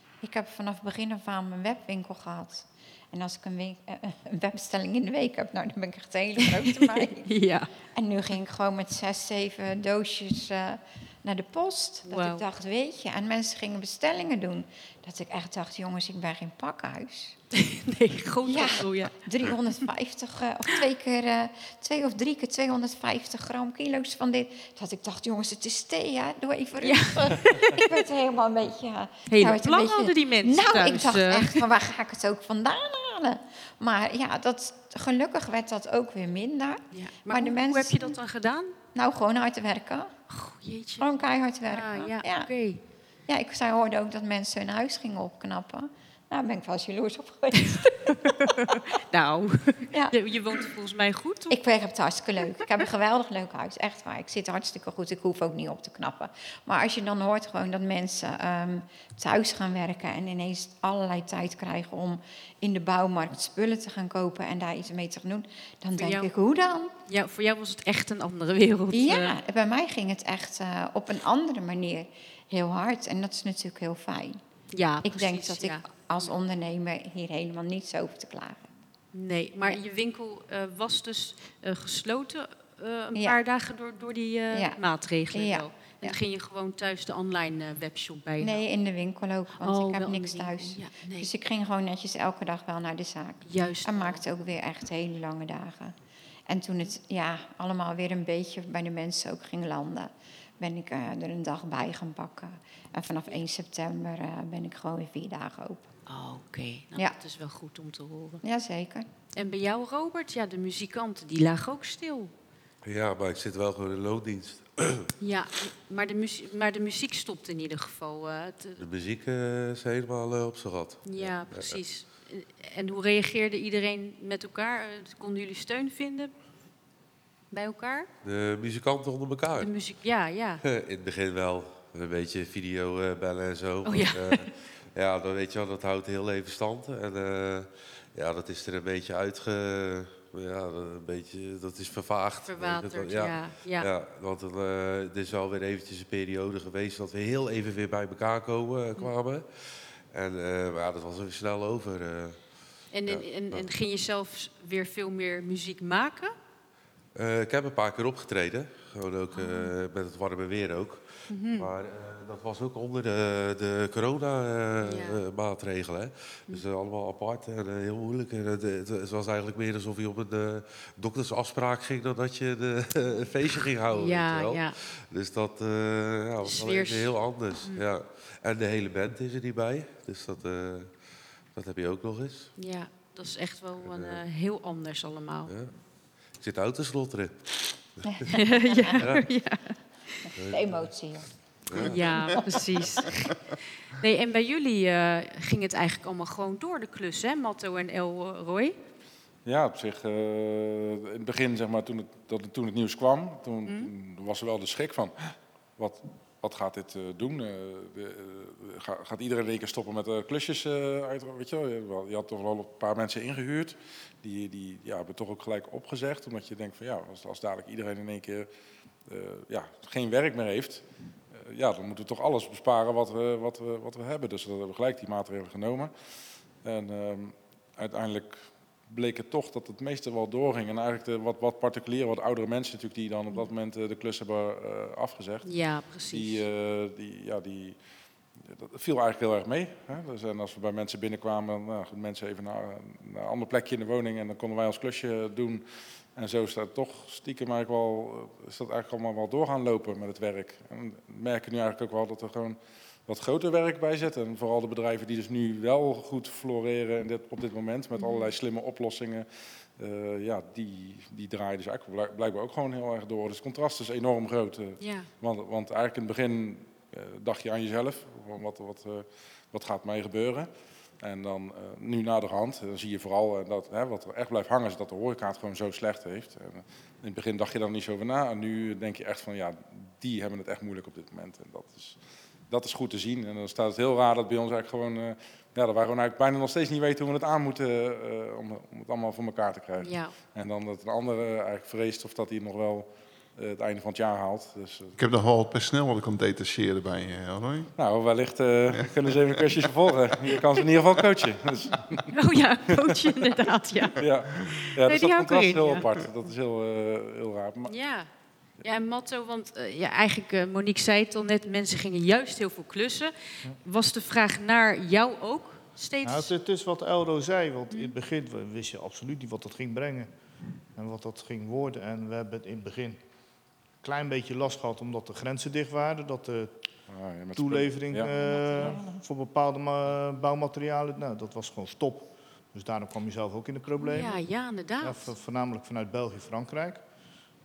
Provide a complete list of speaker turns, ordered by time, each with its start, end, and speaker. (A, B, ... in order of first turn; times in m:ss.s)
0:00.2-0:07.3 A
0:06.6-0:07.7 B
0:07.9-0:17.4 A
0:12.1-0:12.4 B
0:17.5-0:19.2 B
0:18.5-0:38.1 A
0:26.8-0:27.8 B
0:29.3-0:31.6 B
0:36.9-0:38.7 B
0:38.9-0:40.2 A
0:40.3-0:41.1 B
0:41.0-0:48.8 A
0:41.6-0:42.8 B
0:48.1-0:51.6 B
0:51.5-1:06.9 A
1:06.0-1:06.3 B
1:07.0-1:09.4 B
1:08.9-1:14.4 A
1:14.7-1:16.3 B
1:15.0-1:18.7 A
1:19.1-1:28.6 B
1:24.5-1:24.8 A
1:25.3-1:26.2 A
1:28.4-1:36.0 A
1:29.6-1:31.3 B
1:33.4-1:34.2 B
1:36.5-1:45.9 A
1:46.1-1:48.4 B
1:48.4-1:49.1 A
1:49.4-1:52.3 B
1:52.8-1:55.1 C
1:55.2-1:58.8 B
1:58.8-2:01.8 C
2:01.0-2:06.3 B
2:07.5-2:08.1 B
2:08.2-2:09.7 C
2:09.6-2:10.6 B
2:10.6-2:33.7 C
2:13.8-2:14.5 B
2:22.4-2:23.9 B
2:32.9-2:36.3 B
2:37.1-3:02.5 C
2:39.3-2:39.7 B
2:41.3-2:41.7 B
2:44.8-2:45.2 B
2:53.9-2:54.8 B
2:56.4-2:57.8 B
3:02.6-3:05.5 B
3:03.8-3:04.2 C
3:05.4-3:08.4 C
3:08.0-3:09.0 A
3:08.3-3:10.3 B
3:09.0-3:09.3 C
3:10.3-3:13.2 A
3:10.4-3:11.0 C
3:11.7-3:12.4 C
3:11.7-3:13.3 B
3:13.9-3:18.8 B
3:19.4-3:38.5 D
3:23.7-3:23.9 B
3:39.0-3:45.9 D
3:46.5-3:55.5 D
3:55.4-3:56.4 B
3:56.1-3:57.8 D
3:58.3-4:55.0 D
4:18.0-4:18.3 B
4:24.8-4:25.1 B
4:49.8-4:50.2 B
4:55.0-4:57.7 E
4:57.8-5:02.1 D
5:02.1-5:05.9 B
5:02.7-5:03.3 D
5:04.0-5:07.7 D
5:07.7-5:16.3 B
5:16.0-5:20.1 F
5:20.7-5:23.0 F
5:23.8-5:26.6 F
5:26.9-5:28.1 D
5:27.4-5:34.2 F
5:28.1-5:29.0 A
5:33.8-5:35.1 B
5:34.8-5:36.8 F